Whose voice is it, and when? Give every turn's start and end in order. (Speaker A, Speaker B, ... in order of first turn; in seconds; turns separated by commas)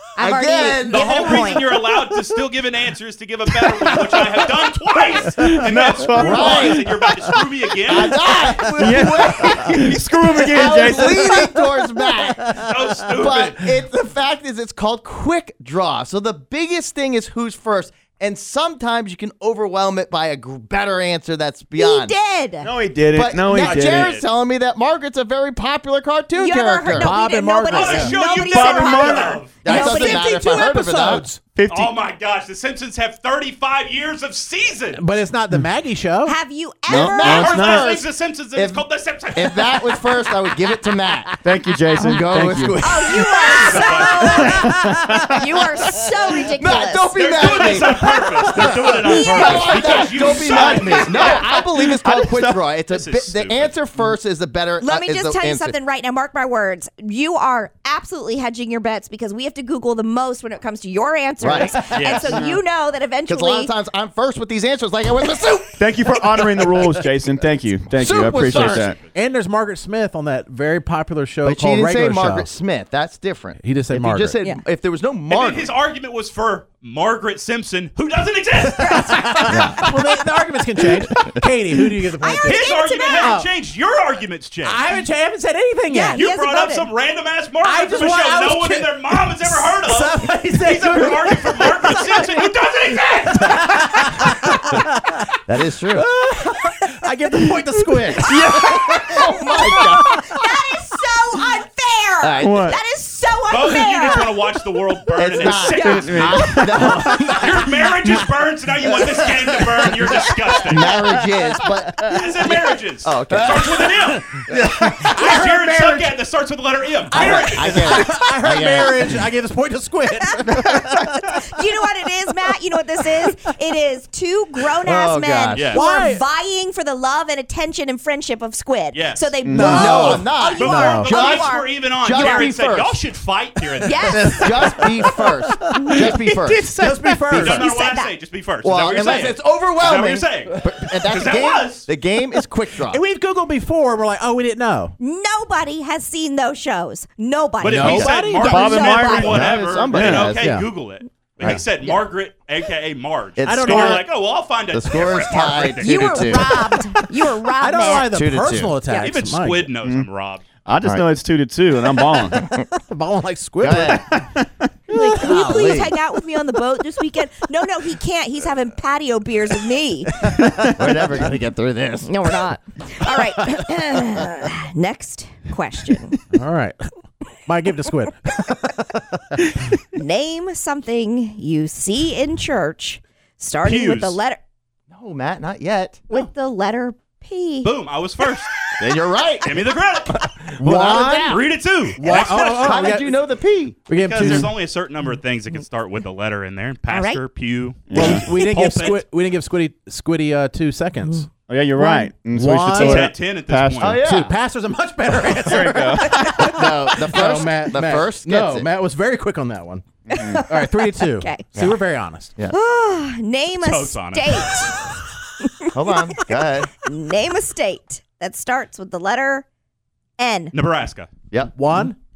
Speaker A: 0.2-1.8, Speaker B: 0.2-1.3, Speaker C: 0.9-8.3, Speaker D: 5.3-6.9, Speaker B: 6.2-6.9, Speaker B: 7.9-22.1, Speaker D: 8.7-11.5, Speaker C: 12.6-13.6, Speaker A: 21.8-22.7, Speaker D: 22.6-24.1, Speaker B: 23.1-27.2, Speaker C: 23.7-24.3, Speaker A: 26.4-30.9, Speaker E: 26.9-28.1, Speaker C: 27.7-29.6, Speaker D: 28.2-29.5, Speaker B: 29.6-31.3, Speaker E: 29.7-31.4, Speaker D: 31.5-31.9, Speaker C: 31.7-35.0, Speaker E: 34.9-36.4, Speaker A: 36.2-37.7, Speaker D: 36.9-37.9, Speaker B: 36.9-41.4, Speaker C: 37.3-40.1, Speaker D: 41.4-42.9, Speaker B: 42.0-44.1, Speaker A: 42.8-47.9, Speaker C: 43.4-44.7, Speaker D: 44.2-45.5, Speaker B: 46.3-55.8, Speaker C: 47.1-51.6, Speaker A: 48.9-50.4, Speaker D: 50.4-52.6, Speaker C: 52.9-54.1, Speaker A: 54.8-63.7, Speaker B: 61.4-62.1, Speaker C: 61.9-62.4, Speaker D: 62.1-62.6, Speaker B: 63.3-66.7, Speaker D: 65.8-69.0, Speaker B: 68.0-68.9, Speaker C: 68.4-69.1, Speaker E: 69.1-72.5, Speaker B: 71.4-75.7, Speaker E: 73.6-74.4, Speaker C: 75.3-79.9, Speaker A: 78.8-79.6, Speaker E: 79.1-82.7, Speaker B: 79.5-79.8, Speaker A: 82.2-83.3, Speaker C: 82.4-84.9, Speaker E: 83.2-83.5, Speaker E: 84.6-86.2, Speaker A: 85.9-86.9, Speaker C: 86.1-93.7, Speaker E: 87.6-92.5, Speaker E: 93.3-95.3, Speaker B: 95.5-96.1, Speaker E: 95.9-99.1, Speaker D: 98.2-98.9, Speaker B: 98.5-100.3, Speaker A: 99.2-104.5, Speaker B: 102.2-102.6, Speaker D: 102.4-102.8, Speaker C: 103.5-106.5, Speaker B: 105.2-107.9, Speaker A: 105.3-106.9, Speaker D: 105.8-107.1, Speaker C: 107.3-110.9, Speaker B: 108.9-109.4, Speaker B: 110.6-113.9, Speaker C: 112.1-118.0, Speaker B: 114.5-115.1, Speaker E: 114.7-116.1, Speaker E: 117.1-121.9, Speaker B: 117.2-119.2, Speaker A: 117.3-118.2, Speaker A: 120.4-132.5, Speaker E: 122.5-123.4, Speaker B: 124.8-125.8, Speaker C: 125.5-125.8, Speaker E: 125.7-126.2, Speaker C: 128.9-134.5, Speaker D: 129.4-130.3, Speaker B: 129.6-133.0, Speaker E: 130.6-131.2, Speaker A: 133.8-134.9, Speaker B: 134.1-137.5, Speaker D: 134.4-134.7, Speaker E: 135.7-137.7, Speaker A: 135.8-136.1, Speaker C: 137.3-141.9, Speaker A: 137.3-138.2, Speaker B: 138.6-143.0, Speaker E: 142.8-145.0, Speaker A: 145.0-149.4, Speaker C: 147.6-156.4, Speaker E: 147.7-148.8, Speaker B: 147.8-148.1, Speaker D: 148.4-150.3, Speaker B: 149.3-150.6, Speaker E: 150.4-150.7, Speaker B: 153.4-154.1, Speaker E: 153.5-154.1, Speaker B: 154.7-156.6, Speaker A: 155.5-158.1, Speaker E: 156.3-156.7, Speaker E: 157.6-159.7, Speaker B: 158.1-158.8, Speaker C: 158.9-160.4, Speaker D: 159.8-160.1, Speaker D: 160.7-162.4, Speaker B: 160.8-161.1, Speaker B: 162.3-162.7, Speaker E: 162.5-164.1, Speaker B: 163.6-164.1, Speaker D: 164.1-164.5, Speaker A: 164.9-170.2, Speaker E: 164.9-165.8, Speaker B: 165.2-165.9, Speaker D: 170.5-170.7, Speaker B: 170.8-172.1, Speaker A: 172.1-176.2, Speaker E: 176.3-176.9, Speaker E: 177.4-179.5, Speaker A: 179.9-184.4, Speaker C: 183.6-184.2, Speaker B: 184.9-186.1, Speaker A: 186.1-188.4, Speaker C: 187.6-188.5, Speaker B: 188.8-189.5, Speaker C: 189.4-190.4, Speaker B: 190.1-191.4, Speaker E: 190.6-191.4, Speaker C: 191.3-192.7, Speaker E: 192.0-193.2, Speaker B: 192.0-193.8, Speaker E: 193.9-194.5, Speaker C: 193.9-199.0, Speaker A: 196.9-197.2, Speaker D: 197.9-198.3, Speaker E: 197.9-201.3, Speaker D: 201.4-204.0, Speaker A: 201.8-202.1, Speaker E: 202.3-203.1, Speaker C: 202.7-204.1, Speaker B: 203.8-204.3, Speaker E: 204.0-209.9, Speaker D: 205.3-206.5, Speaker B: 206.4-208.7, Speaker D: 210.1-210.4, Speaker A: 210.1-211.5, Speaker E: 210.5-212.4, Speaker A: 212.5-214.9, Speaker C: 213.6-214.7, Speaker A: 215.4-216.2, Speaker B: 215.7-216.7, Speaker A: 216.9-219.4, Speaker A: 220.2-220.5, Speaker C: 220.5-221.1, Speaker E: 221.5-222.0